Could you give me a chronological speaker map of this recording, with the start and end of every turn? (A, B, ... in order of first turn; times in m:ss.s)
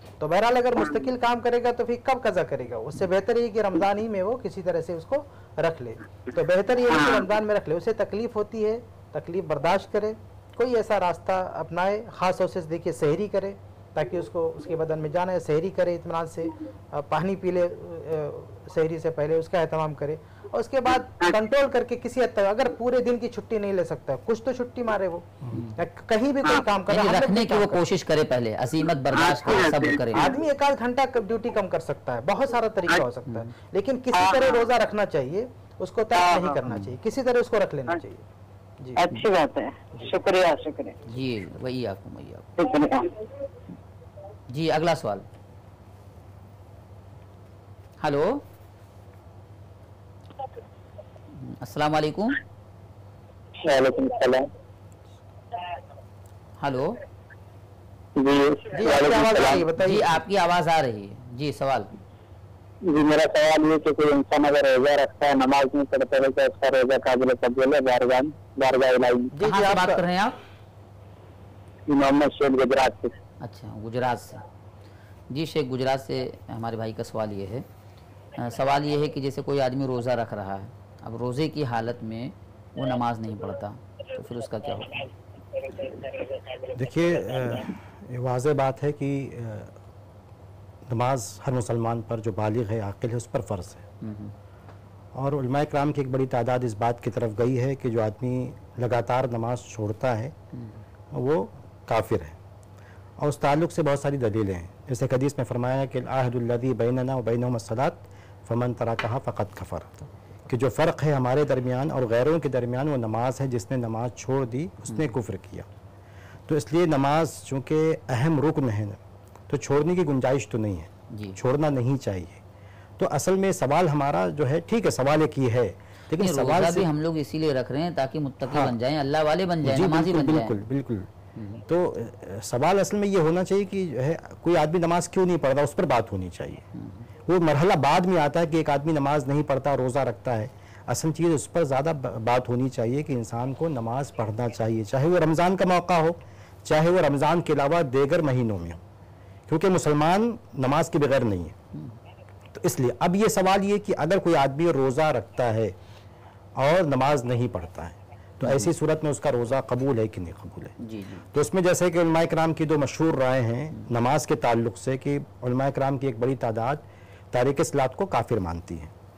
0:00.2-0:27.8 A
0:25.5-0:25.8 B
0:26.9-0:30.3 B
0:29.2-0:29.9 C
0:29.6-0:38.2 A
0:33.2-0:33.5 B
0:34.2-0:34.6 C
0:36.2-0:36.6 C
0:36.7-0:36.9 B
0:39.0-0:41.0 C
0:41.1-0:42.5 B
0:42.6-0:43.1 C
0:44.5-0:45.2 B
0:48.0-0:48.4 B
0:51.4-0:52.4 B
0:53.6-0:54.5 D
0:56.6-0:57.0 B
0:58.2-0:59.6 D
0:58.7-1:00.2 A
0:59.8-1:01.9 B
1:02.9-1:09.3 D
1:09.3-1:10.0 A
1:09.4-1:10.4 B
1:11.9-1:13.1 D
1:13.4-1:14.4 B
1:15.3-1:17.6 B
1:18.4-1:25.1 B
1:26.7-1:29.7 E
1:30.9-1:33.8 E
1:34.0-1:34.3 B
1:35.1-1:40.3 E
1:40.5-1:40.8 B
1:41.1-1:42.4 E
1:43.2-1:55.7 E
1:56.5-1:59.0 E
1:59.5-2:02.4 E
2:01.1-2:01.4 B
2:03.0-2:06.9 E
2:06.2-2:10.6 B
2:08.4-2:08.8 E
2:09.6-2:11.1 E
2:11.3-2:11.6 B
2:11.7-2:16.6 E
2:16.7-2:17.1 B
2:17.2-2:28.8 E
2:29.5-2:31.6 E
2:32.5-2:35.8 E
2:36.6-2:40.8 E
2:38.4-2:38.7 B
2:40.8-2:41.2 B
2:41.3-2:48.9 E